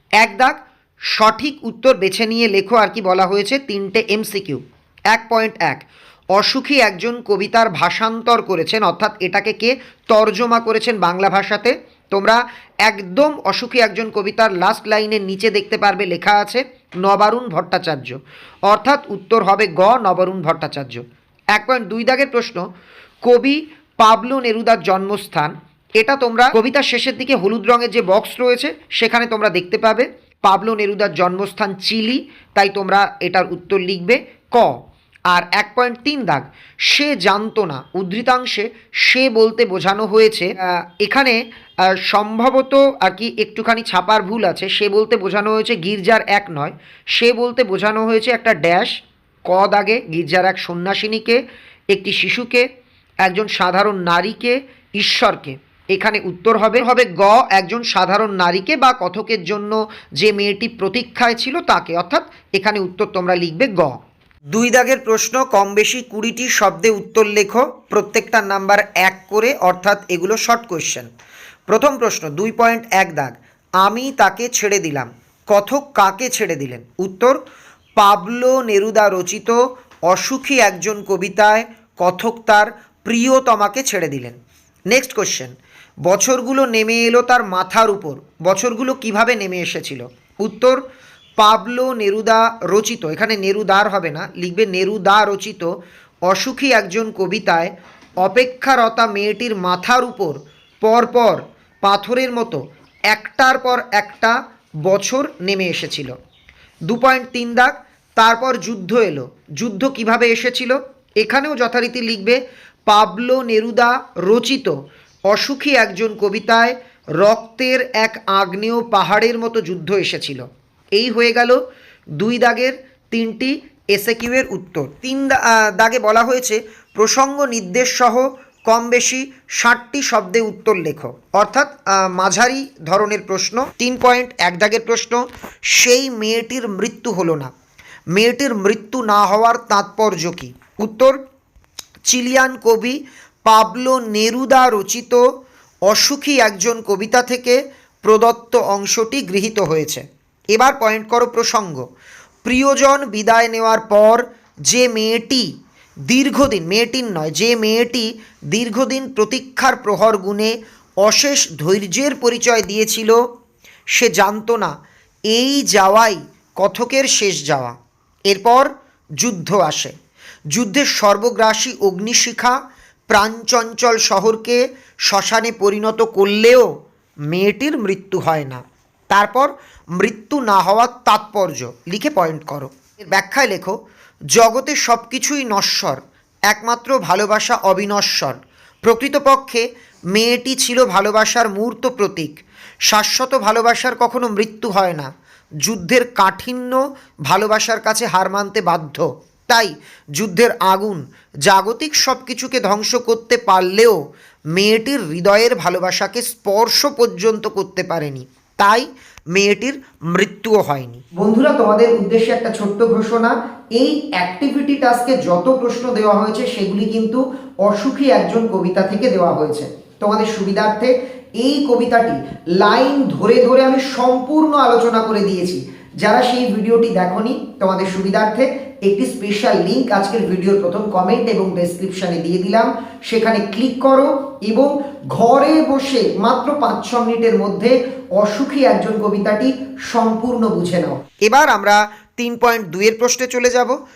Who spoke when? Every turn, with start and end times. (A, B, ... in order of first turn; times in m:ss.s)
0:00.2-0:00.6 A
0:01.1-0:05.8 A
0:06.4-0:21.0 A
0:21.5-0:22.6 A
0:23.2-0:34.8 A
0:35.3-0:41.4 A
0:42.0-0:51.4 A
0:51.9-0:52.7 A
0:53.2-1:04.0 A
1:04.5-1:11.1 A
1:11.7-1:17.4 A
1:18.0-1:24.4 A
1:24.9-1:25.5 A
1:26.1-1:30.8 A
1:31.4-1:35.7 A
1:36.3-1:37.7 A
1:38.2-1:46.1 A
1:46.9-1:54.8 A
1:55.3-2:00.4 A
2:01.0-2:01.6 A
2:02.2-2:17.5 A
2:18.2-2:21.2 A
2:22.1-2:25.2 A
2:25.9-2:31.8 A
2:32.4-2:35.5 A
2:36.1-2:43.2 A
2:43.9-2:44.8 A
2:45.3-2:47.8 A
2:48.3-2:49.9 A
2:50.5-2:52.6 A
2:53.1-2:56.7 A
2:57.3-3:03.8 A
3:04.3-3:15.1 A
3:15.6-3:24.0 A
3:24.6-4:03.8 A